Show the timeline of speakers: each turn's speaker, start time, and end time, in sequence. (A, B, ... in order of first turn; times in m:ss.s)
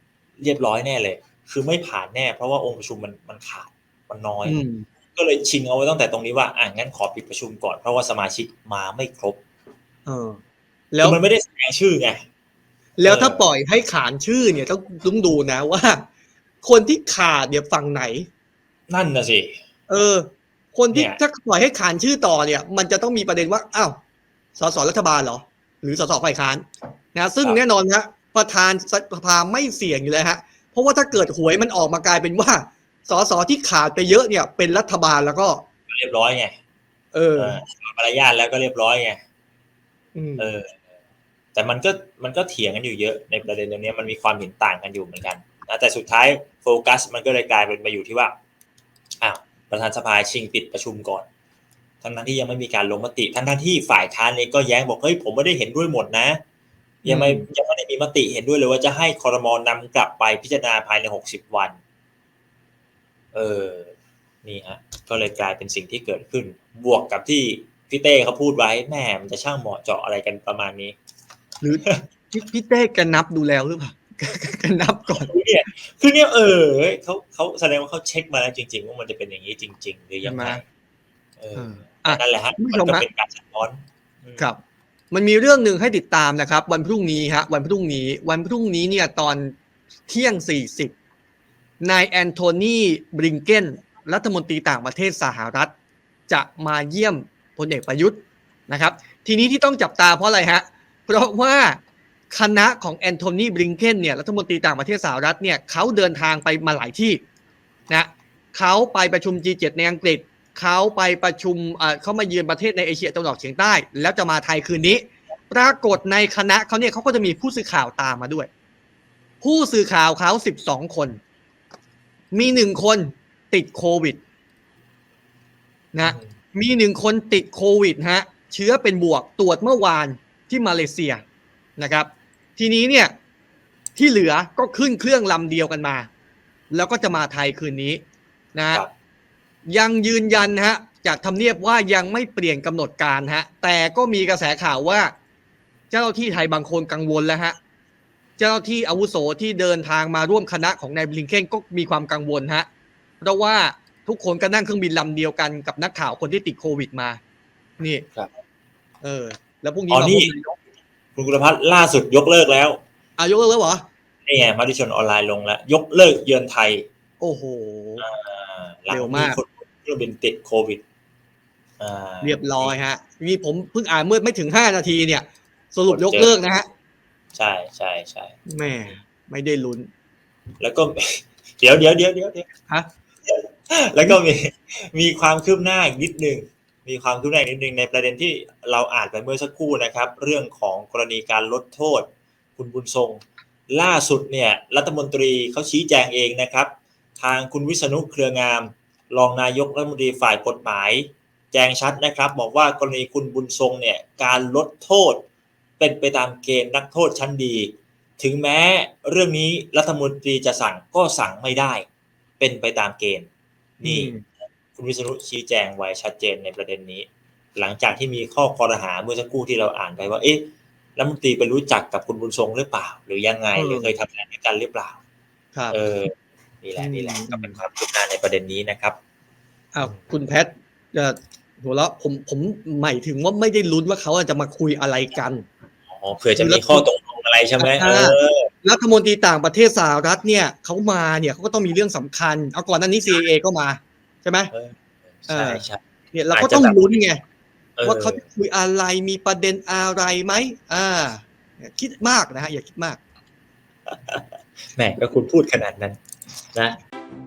0:00.4-0:04.6 A
0:04.4-0:04.8 B
0:05.1-0:09.4 A
0:10.0-0:10.4 B
0:10.9-0:11.2 B
0:11.0-0:12.2 A
0:13.0-0:16.0 B
0:13.0-0:13.4 A
0:16.6-0:18.3 B
0:18.9-0:19.6 A
0:19.9-0:24.0 B
0:20.9-0:21.2 A
0:24.6-0:35.6 B
0:35.9-0:36.6 A
0:37.1-0:37.6 B
0:37.4-0:39.2 A
0:40.1-0:40.5 B
0:40.4-0:40.7 A
0:41.5-0:48.3 A
0:49.2-0:51.3 A
0:52.0-0:56.4 A
0:57.0-1:01.8 A
0:57.0-0:57.5 B
1:03.3-1:03.9 A
1:04.4-1:11.0 A
1:11.6-1:15.3 B
1:15.2-1:20.6 A
1:20.2-1:20.6 B
1:21.4-1:24.4 A
1:21.5-1:23.0 B
1:25.1-1:29.6 B
1:30.1-1:30.9 B
1:31.8-1:35.7 B
1:36.3-1:41.8 B
1:42.3-1:47.2 B
1:47.9-1:58.5 B
1:59.4-2:01.2 B
2:02.3-2:04.2 B
2:05.9-2:11.2 B
2:11.8-2:13.2 B
2:14.0-2:16.1 B
2:16.7-2:18.0 B
2:18.5-2:18.8 B
2:19.7-2:25.1 B
2:25.9-2:27.6 B
2:28.4-2:32.7 B
2:33.2-2:37.2 B
2:37.8-2:38.0 B
2:39.0-2:40.6 B
2:39.9-2:40.3 A
2:41.2-2:42.8 A
2:43.2-2:43.8 B
2:44.2-2:46.8 A
2:47.2-2:48.0 B
2:48.0-2:50.8 A
2:48.9-2:49.4 B
2:51.8-2:52.7 A
2:52.2-2:56.7 B
2:55.9-2:56.4 A
2:57.3-2:58.3 A
2:58.5-2:59.9 B
3:00.6-3:02.5 A
3:03.2-3:25.2 A
3:25.8-3:31.8 A
3:32.4-3:33.3 A
3:33.8-3:34.2 A
3:33.8-3:34.2 B
3:34.7-3:45.0 A
3:43.5-3:43.9 B
3:45.7-3:46.1 A
3:46.6-3:49.0 A
3:46.8-3:47.6 B
3:49.7-3:55.5 B
3:55.9-3:58.5 A
3:56.4-3:56.8 B
3:57.6-4:04.5 B
4:04.5-4:05.8 A
4:05.3-4:07.2 B
4:06.3-4:07.1 A
4:07.8-4:08.2 A
4:07.8-4:13.0 B
4:13.9-4:16.0 A